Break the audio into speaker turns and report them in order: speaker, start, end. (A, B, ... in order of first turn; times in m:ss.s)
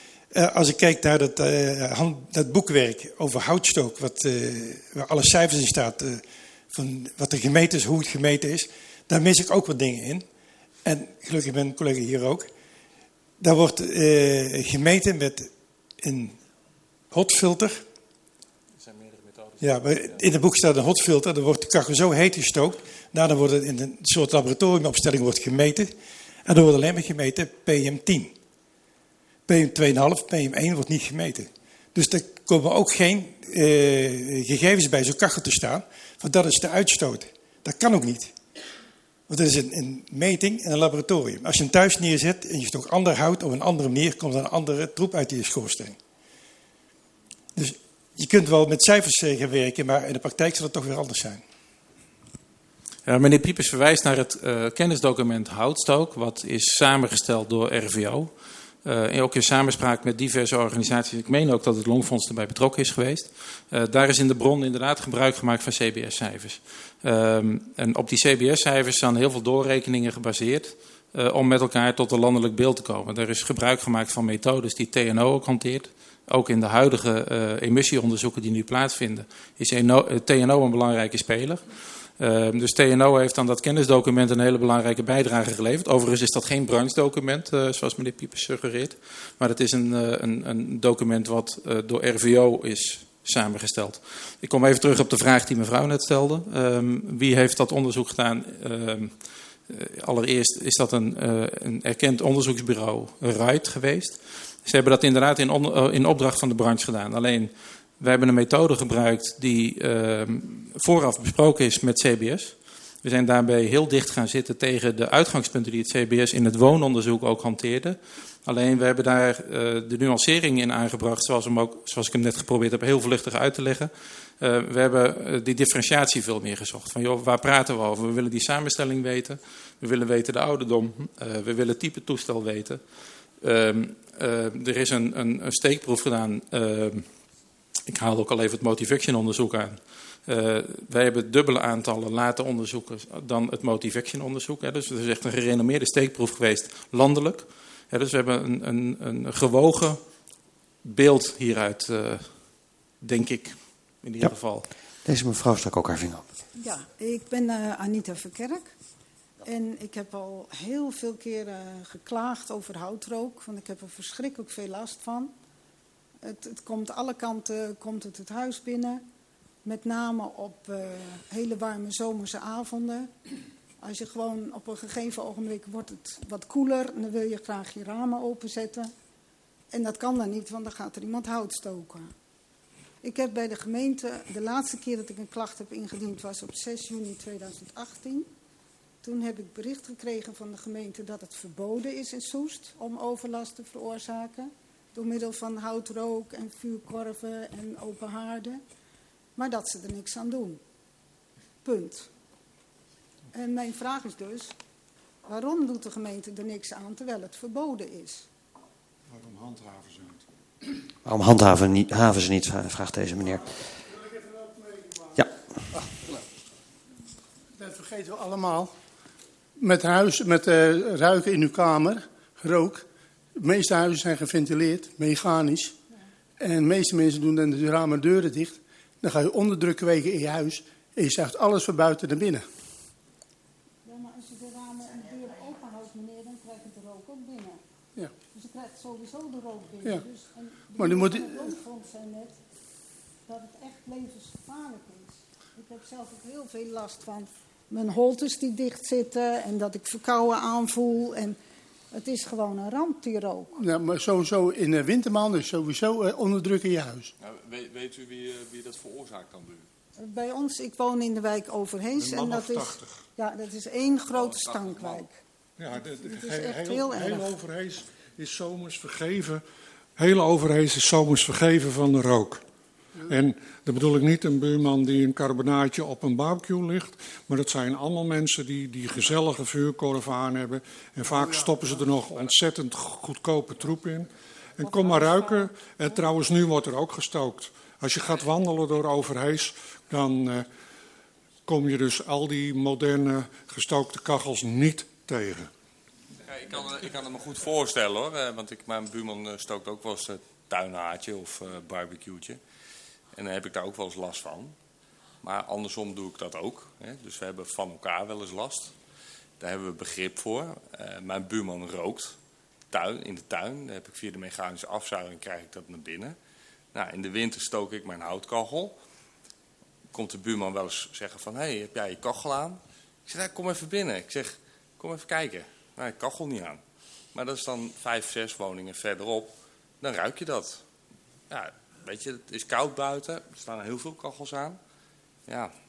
0:00.3-0:10.2 A
0:10.8-0:12.5 A
0:13.4-0:16.4 A
0:17.1-0:17.8 A
0:19.0-0:19.5 B
0:19.6-0:25.9 A
0:26.4-0:28.3 A
0:29.5-0:38.3 A
0:39.3-0:46.0 A
0:47.6-0:51.4 A
0:53.0-0:58.3 B
0:58.8-1:21.6 B
1:22.2-1:39.1 B
1:39.7-2:12.8 B
2:13.4-2:17.0 B
2:17.9-2:30.0 B
2:30.8-2:32.3 B
2:33.0-2:34.7 B
2:35.0-2:36.3 C
2:36.6-2:38.7 D
2:39.4-2:45.3 D
2:46.2-2:49.0 D
2:49.6-2:53.1 D
2:53.8-2:58.9 D
2:59.7-3:02.1 D
3:03.0-3:08.3 D
3:09.0-3:18.6 D
3:19.4-3:20.6 D
3:21.6-3:22.1 D
3:23.3-3:24.5 D
3:25.2-3:28.2 D
3:29.1-3:30.2 E
3:31.0-3:33.6 C
3:34.0-3:35.2 F
3:37.6-3:38.7 F
3:39.6-3:42.8 F
3:43.4-3:45.7 F
3:46.4-3:52.4 F
3:53.8-3:57.6 D
3:58.3-4:02.4 D
4:00.8-4:01.5 F
4:03.3-4:11.4 D
4:11.9-4:13.5 D
4:13.6-4:17.1 F
4:17.2-4:19.6 G
4:20.0-4:25.2 D
4:22.0-4:22.7 E
4:24.2-4:25.0 G
4:25.6-4:29.4 E
4:26.0-4:27.4 D
4:30.0-4:32.4 E
4:33.1-4:50.5 E
4:41.1-4:41.9 F
4:51.4-4:55.5 E
4:56.2-5:02.4 G
5:03.1-5:04.5 G
5:05.2-5:08.7 G
5:09.4-5:12.2 G
5:12.7-5:16.2 G
5:16.7-5:18.8 G
5:19.9-5:26.6 G
5:27.1-5:30.6 G
5:31.3-5:34.6 G
5:35.3-5:35.5 G